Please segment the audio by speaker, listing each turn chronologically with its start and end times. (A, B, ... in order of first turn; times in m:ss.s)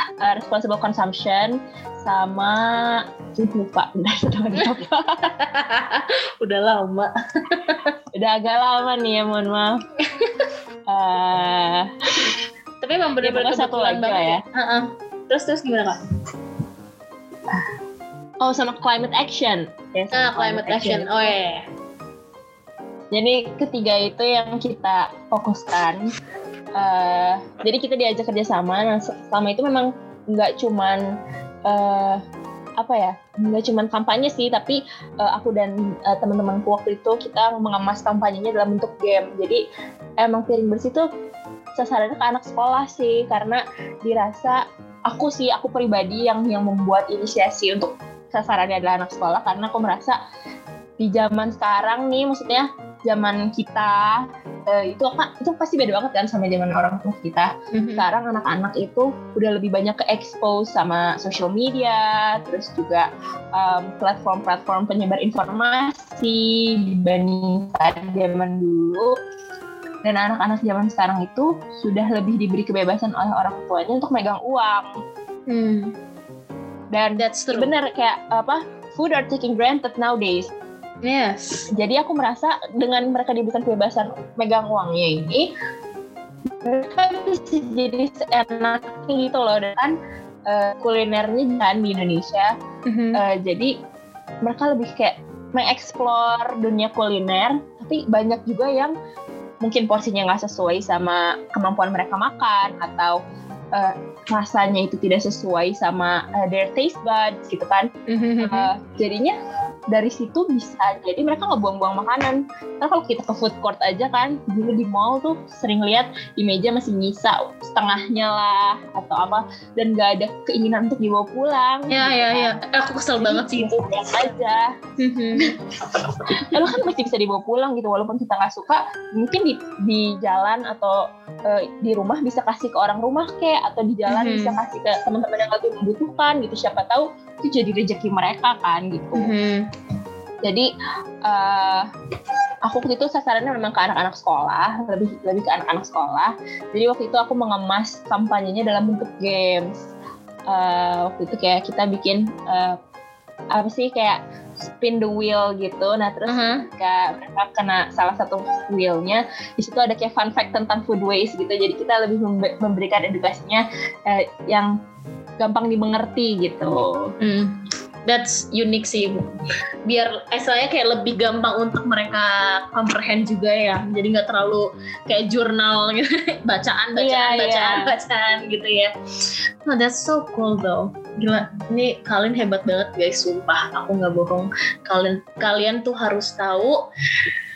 0:00.2-0:05.2 A
0:05.4-0:07.8 B
0:08.1-0:09.8 A
0:10.2-0:10.4 B
0:10.9-0:11.9 A
0:12.8-0:16.0 B
0:13.2-0:14.4 A
0:18.4-0:21.3 A
0:20.1-0:21.6 B
0:23.1-0:26.0 A
0:26.8-0:31.0 A
0:31.7-0:32.2 A
0:32.8-0:39.6 A
0:40.2-0:41.0 A
0:41.8-0:50.2 A
0:51.0-1:09.1 A
0:57.7-0:58.0 B
1:10.0-1:14.9 A
1:15.5-1:15.9 B
1:16.9-1:20.5 A
1:17.2-1:17.7 B
1:21.0-1:21.7 B
1:21.7-1:25.5 A
1:26.6-1:30.0 A
1:30.5-1:32.5 A
1:32.9-1:33.2 B
1:33.1-1:33.7 A
1:34.4-1:38.9 A
1:39.6-1:43.2 A
1:43.7-1:47.9 A
1:48.1-1:48.7 B
1:48.4-1:49.3 A
1:49.9-2:02.5 A
2:01.9-2:04.3 B
2:03.2-2:04.7 A
2:05.0-2:05.5 B
2:06.4-2:06.8 B
2:06.4-2:19.3 A
2:14.1-2:14.6 B
2:19.1-2:19.7 B
2:21.2-2:21.9 A
2:22.6-2:29.8 A
2:30.5-2:32.8 A
2:33.5-2:34.2 A
2:34.8-2:44.7 A
2:36.3-2:36.6 B
2:45.4-2:47.1 A
2:47.2-2:49.3 B
2:49.8-2:58.9 B
2:57.0-2:57.9 A
2:59.6-3:06.8 B